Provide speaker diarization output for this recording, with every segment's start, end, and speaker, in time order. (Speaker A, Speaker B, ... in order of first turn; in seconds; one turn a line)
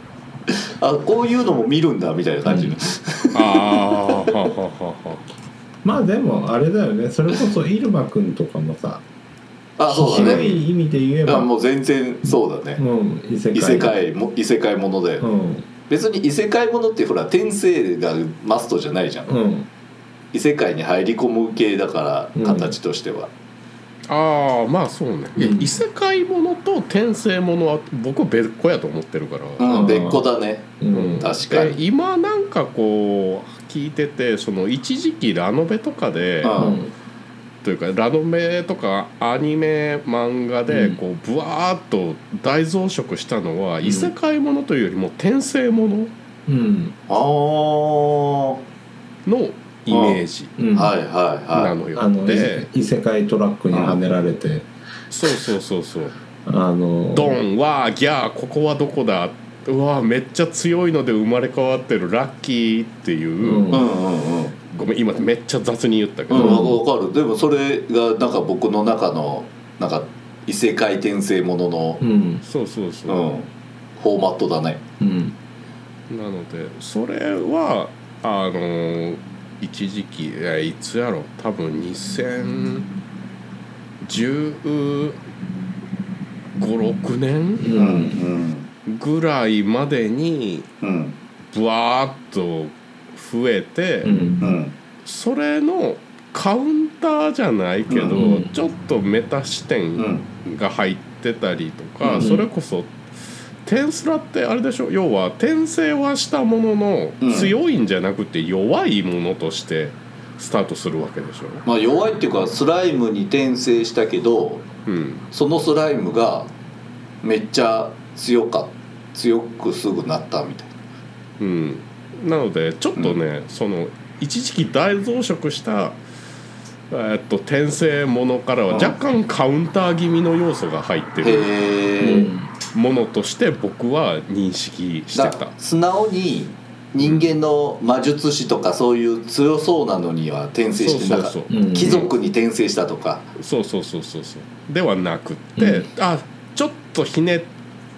Speaker A: 0.5-4.0
Speaker B: 2.4-2.7
Speaker C: 3.3-5.2
Speaker B: 5.8-9.0
Speaker A: 9.8-10.5
Speaker B: 9.9-11.5
Speaker C: 10.1-10.6
Speaker A: 11.2-12.8
Speaker B: 12.8-13.9
Speaker A: 13.5-15.3
Speaker B: 15.2-15.7
Speaker A: 15.9-19.4
Speaker B: 19.3-19.7
Speaker A: 20.3-23.3
Speaker B: 22.4-22.7
Speaker C: 24.1-29.9
Speaker B: 25.4-25.8
Speaker A: 29.6-31.8
Speaker B: 29.7-30.2
Speaker B: 30.8-31.3
Speaker C: 30.9-36.6
Speaker A: 36.4-36.8
Speaker B: 36.6-36.9
Speaker C: 37.6-46.1
Speaker B: 40.7-41.0
Speaker B: 43.8-44.1
Speaker B: 46.5-47.0
Speaker A: 47.1-48.6
Speaker C: 49.2-50.5
Speaker A: 49.9-50.2
Speaker B: 50.6-50.9
Speaker A: 50.7-51.7
Speaker C: 51.5-52.7
Speaker B: 51.9-54.7
Speaker C: 55.1-56.1
Speaker B: 56.5-57.4
Speaker C: 57.1-63.7
Speaker B: 63.4-63.9
Speaker A: 63.7-64.5
Speaker C: 64.7-66.7
Speaker A: 66.3-72.0
Speaker B: 66.3-66.8
Speaker B: 72.0-72.4
Speaker C: 72.4-73.2
Speaker A: 73.1-74.8
Speaker B: 75.0-75.3
Speaker C: 76.1-82.9
Speaker C: 84.0-85.2
Speaker C: 86.6-87.7
Speaker B: 87.6-88.2
Speaker A: 87.7-88.7
Speaker C: 88.8-90.7
Speaker A: 90.8-91.2
Speaker C: 91.5-94.2
Speaker B: 94.0-94.5
Speaker A: 94.4-94.8
Speaker C: 95.0-103.0
Speaker A: 97.9-98.2
Speaker B: 98.1-98.5
Speaker A: 100.0-100.3
Speaker A: 102.0-102.3
Speaker B: 102.2-102.5
Speaker C: 103.6-111.6
Speaker A: 107.2-107.5
Speaker A: 111.7-114.7
Speaker C: 114.8-115.2
Speaker A: 115.3-116.5
Speaker A: 117.2-120.7
Speaker C: 121.4-126.0
Speaker C: 126.9-131.5
Speaker A: 128.7-128.9
Speaker A: 131.2-132.3
Speaker B: 132.0-132.5
Speaker C: 132.7-135.5
Speaker A: 135.1-143.3
Speaker C: 137.0-137.3
Speaker C: 140.8-142.1
Speaker B: 141.5-142.0
Speaker C: 143.4-147.5
Speaker B: 145.6-145.9